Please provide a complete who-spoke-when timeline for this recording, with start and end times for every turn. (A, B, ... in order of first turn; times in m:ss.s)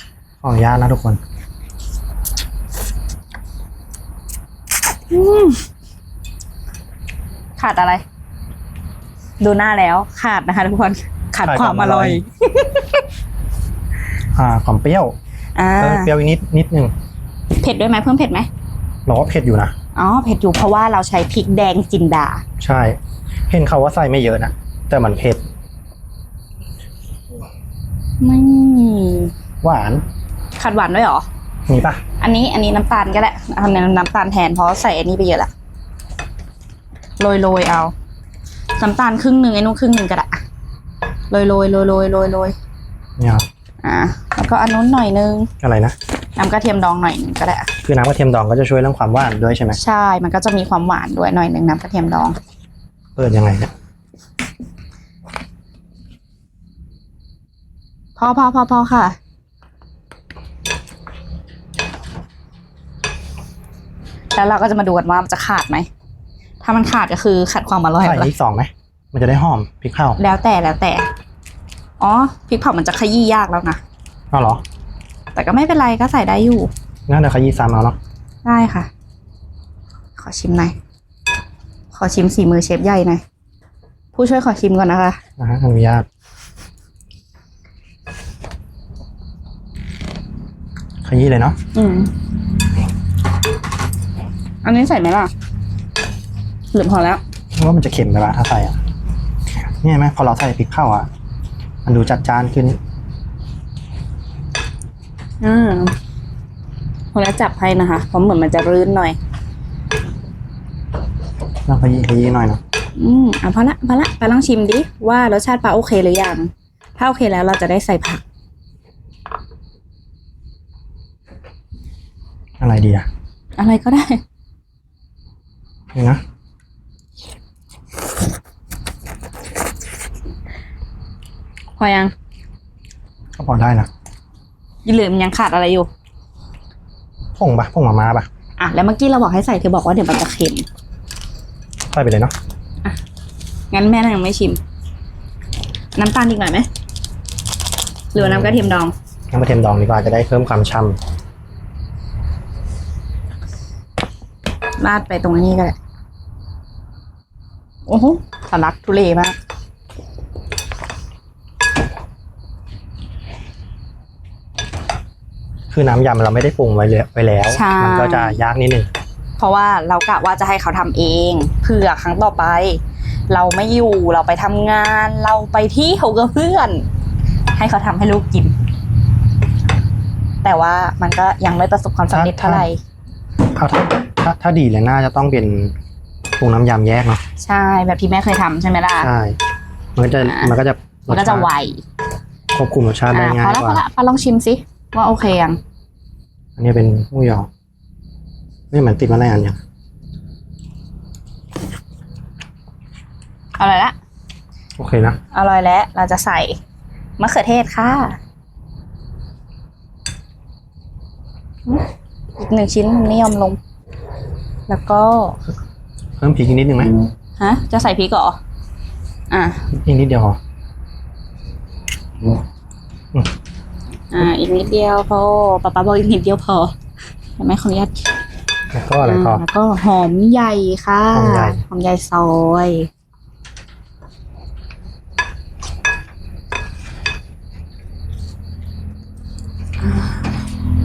0:00.4-0:01.2 A
0:05.1-0:05.6 B
0:07.6-0:08.0 B
0:09.4-0:13.0 B
0:11.4-0:12.2 A
0:14.3-0:15.1 A
0:15.6-0:16.1 B
0:15.8-0:16.9 A
0:17.6-0:18.5 B
0:19.0-0:19.7 A
0:19.9-0:22.4 B
0:22.6-0:23.0 A
0:23.5-0:25.4 A
0:28.2-0:29.3 B
0:29.6-0:30.0 A
0:30.6-0:31.3 B
0:31.7-0:32.0 A
0:32.2-0:35.5 B
0:37.2-0:37.9 B
0:38.8-0:40.4 B
0:41.3-0:42.5 B
0:43.2-0:43.4 A
0:43.8-0:45.5 B
0:45.6-0:46.0 A
0:46.4-0:47.7 B
0:47.8-0:49.8 A
0:49.7-0:52.4 B
0:53.2-0:53.7 A
0:58.2-0:59.2 B
1:04.3-1:05.9 B
1:06.6-1:08.3 B
1:08.0-1:10.2 A
1:10.2-1:11.1 B
1:12.0-1:13.8 B
1:14.3-1:14.6 A
1:15.3-1:16.7 B
1:17.1-1:18.0 A
1:18.4-1:18.9 B
1:20.2-1:20.7 B
1:21.9-1:23.2 B
1:24.1-1:25.2 B
1:25.4-1:26.0 A
1:31.0-1:31.6 A
1:31.7-1:32.1 B
1:34.6-1:35.3 B
1:36.7-1:37.2 B
1:37.5-1:38.8 A
1:39.5-1:41.1 A
1:41.8-1:42.8 A
1:45.4-1:45.9 B
1:47.1-1:49.2 B
1:51.6-1:52.6 A
1:53.0-1:58.2 B
2:02.6-2:03.1 A
2:03.6-2:04.2 B
2:05.9-2:06.2 A
2:11.8-2:12.1 B
2:13.4-2:13.9 A
2:14.8-2:15.9 B
2:17.4-2:18.3 A
2:18.6-2:20.6 B
2:21.9-2:22.3 A
2:23.7-2:24.6 B
2:25.9-2:26.7 B
2:28.1-2:28.9 B
2:28.2-2:28.7 A
2:29.3-2:31.0 A
2:34.8-2:35.8 B
2:37.9-2:39.4 B
2:45.7-2:48.9 A
2:47.5-2:48.4 B
2:49.4-2:56.9 B
2:57.5-2:58.5 B
3:00.4-3:02.8 B
3:02.1-3:02.7 A
3:03.5-3:05.7 A
3:06.3-3:07.2 A
3:07.4-3:09.1 B
3:09.0-3:09.4 A
3:10.0-3:11.5 A
3:10.2-3:10.6 B
3:11.1-3:11.8 B
3:12.5-3:13.8 A
3:13.1-3:15.6 B
3:16.6-3:17.5 A
3:18.7-3:19.6 A
3:23.6-3:23.9 B
3:24.8-3:25.2 A
3:25.3-3:26.6 B
3:27.2-3:28.2 B
3:32.4-3:33.6 B
3:34.7-3:35.4 B
3:36.2-3:36.9 A
3:37.4-3:38.4 B
3:39.3-3:39.6 B
3:39.7-3:40.4 A
3:44.1-3:46.7 B
3:47.4-3:48.0 B
3:48.7-3:49.4 A
3:49.0-3:52.9 B
3:51.1-3:51.6 A
3:59.8-4:00.3 B